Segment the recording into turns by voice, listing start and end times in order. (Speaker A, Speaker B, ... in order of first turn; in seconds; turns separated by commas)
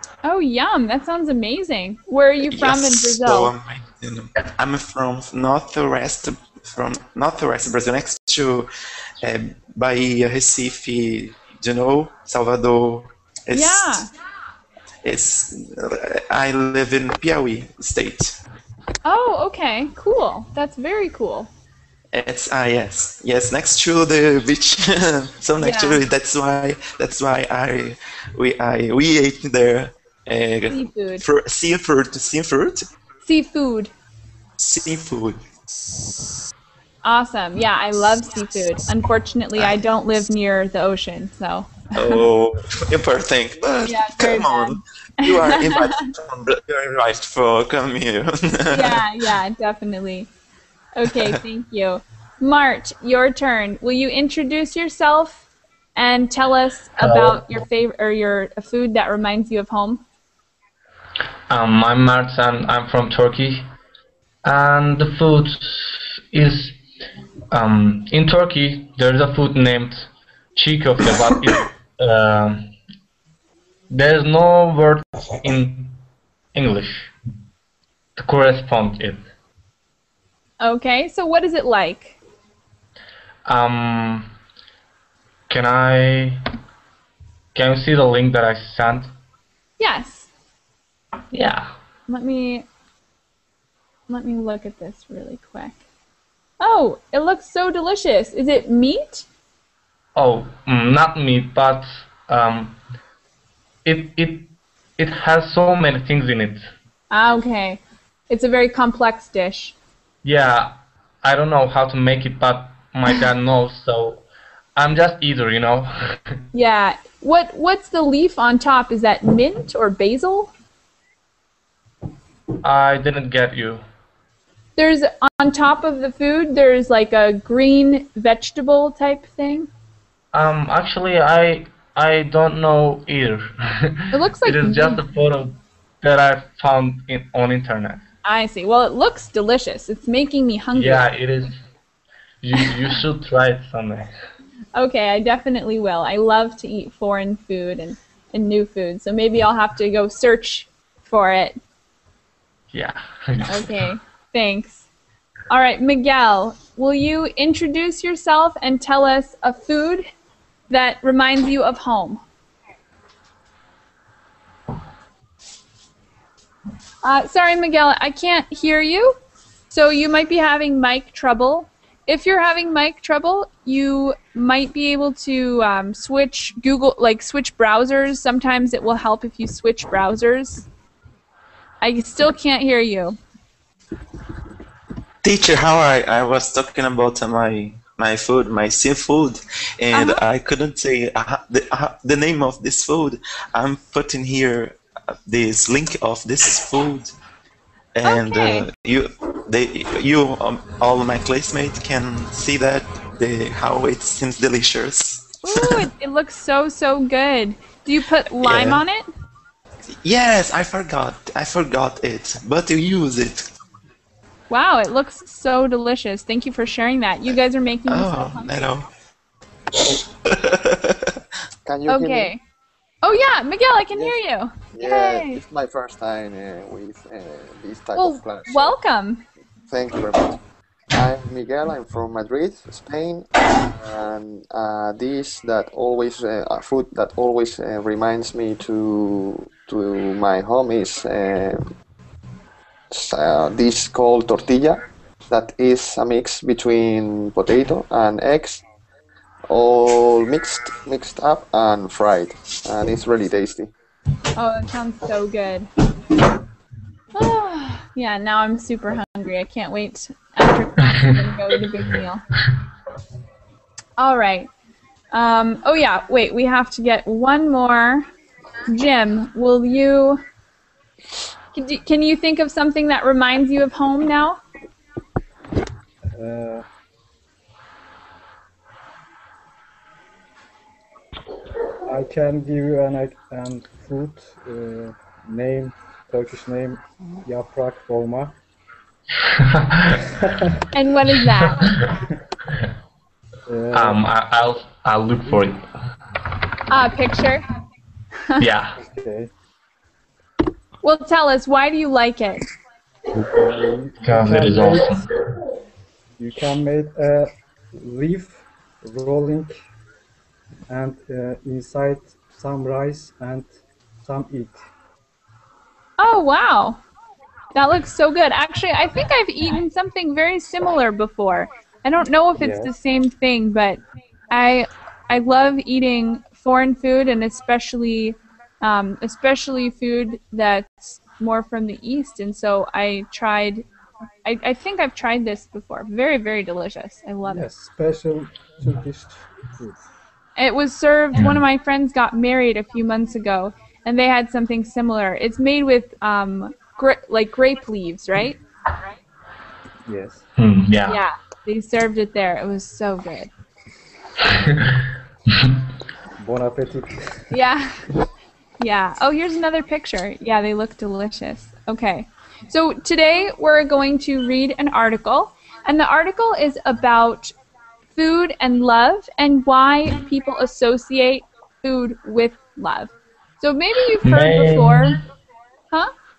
Speaker A: 0.2-3.5, Speaker B: 2.5-8.7, Speaker B: 9.2-14.1, Speaker A: 13.5-14.1, Speaker B: 15.0-18.4, Speaker A: 19.0-21.5, Speaker B: 22.1-32.9, Speaker A: 25.6-26.0, Speaker A: 30.7-31.2, Speaker A: 33.2-33.9, Speaker B: 34.6-35.6, Speaker A: 37.0-42.2, Speaker B: 41.9-49.0, Speaker A: 43.8-46.1, Speaker A: 48.7-50.3, Speaker A: 50.9-55.4, Speaker A: 56.0-60.0, Speaker C: 57.0-57.6, Speaker C: 61.5-63.6, Speaker C: 64.4-66.8, Speaker C: 67.5-72.7, Speaker C: 73.9-76.0, Speaker C: 76.5-77.1, Speaker C: 78.2-79.2, Speaker A: 80.6-82.2, Speaker C: 83.5-84.3, Speaker C: 85.5-86.4, Speaker C: 87.5-89.1, Speaker A: 89.8-90.3, Speaker C: 91.3-91.7, Speaker A: 92.1-92.7, Speaker A: 94.1-95.8, Speaker A: 96.6-99.2, Speaker C: 100.2-102.8, Speaker C: 103.8-106.7, Speaker A: 107.1-109.8, Speaker C: 110.2-114.2, Speaker C: 114.8-116.2, Speaker A: 116.5-120.5, Speaker C: 122.6-123.8, Speaker A: 124.8-129.7, Speaker C: 130.3-138.0, Speaker A: 134.1-135.0, Speaker A: 138.2-141.1, Speaker C: 140.7-141.6, Speaker C: 142.4-144.1, Speaker A: 144.7-151.6, Speaker C: 152.7-153.9, Speaker A: 153.5-154.8, Speaker A: 155.5-160.1, Speaker A: 160.7-162.2, Speaker A: 167.0-169.2, Speaker A: 169.7-180.7, Speaker A: 181.8-183.2, Speaker B: 185.2-197.1, Speaker A: 189.9-190.2, Speaker B: 197.9-205.8, Speaker A: 198.0-198.7, Speaker A: 205.4-209.1, Speaker B: 208.4-208.8, Speaker B: 210.0-213.5, Speaker A: 214.5-218.7, Speaker B: 217.9-218.9, Speaker B: 219.8-221.2, Speaker D: 221.6-222.3, Speaker A: 221.9-222.4, Speaker A: 223.0-225.4, Speaker D: 224.7-228.8, Speaker A: 227.9-229.2, Speaker D: 229.7-230.4, Speaker D: 230.9-241.7, Speaker D: 242.9-248.6, Speaker D: 249.5-253.7, Speaker A: 254.3-255.7, Speaker A: 257.1-262.2, Speaker A: 264.0-264.5, Speaker A: 265.1-268.1, Speaker A: 268.7-270.2, Speaker A: 271.5-274.4, Speaker E: 276.1-276.6, Speaker E: 281.9-288.4, Speaker C: 289.3-290.0, Speaker A: 290.7-291.7, Speaker E: 293.5-294.0, Speaker C: 293.7-295.6, Speaker A: 296.7-297.4, Speaker C: 298.4-298.8, Speaker E: 298.8-299.3, Speaker A: 300.8-302.4, Speaker E: 303.3-305.0, Speaker C: 304.0-305.1, Speaker E: 306.2-309.6, Speaker E: 310.7-314.7, Speaker A: 316.0-316.8, Speaker A: 317.6-323.8, Speaker E: 322.4-322.7, Speaker A: 324.3-333.7, Speaker A: 334.2-337.4, Speaker E: 337.2-339.9, Speaker A: 340.4-348.4, Speaker C: 341.1-341.4, Speaker E: 349.9-350.2, Speaker C: 350.4-351.0, Speaker A: 350.9-353.3, Speaker C: 354.3-354.8, Speaker E: 356.2-357.3, Speaker A: 357.3-357.9, Speaker A: 358.6-367.3, Speaker A: 367.9-375.0, Speaker C: 374.0-375.0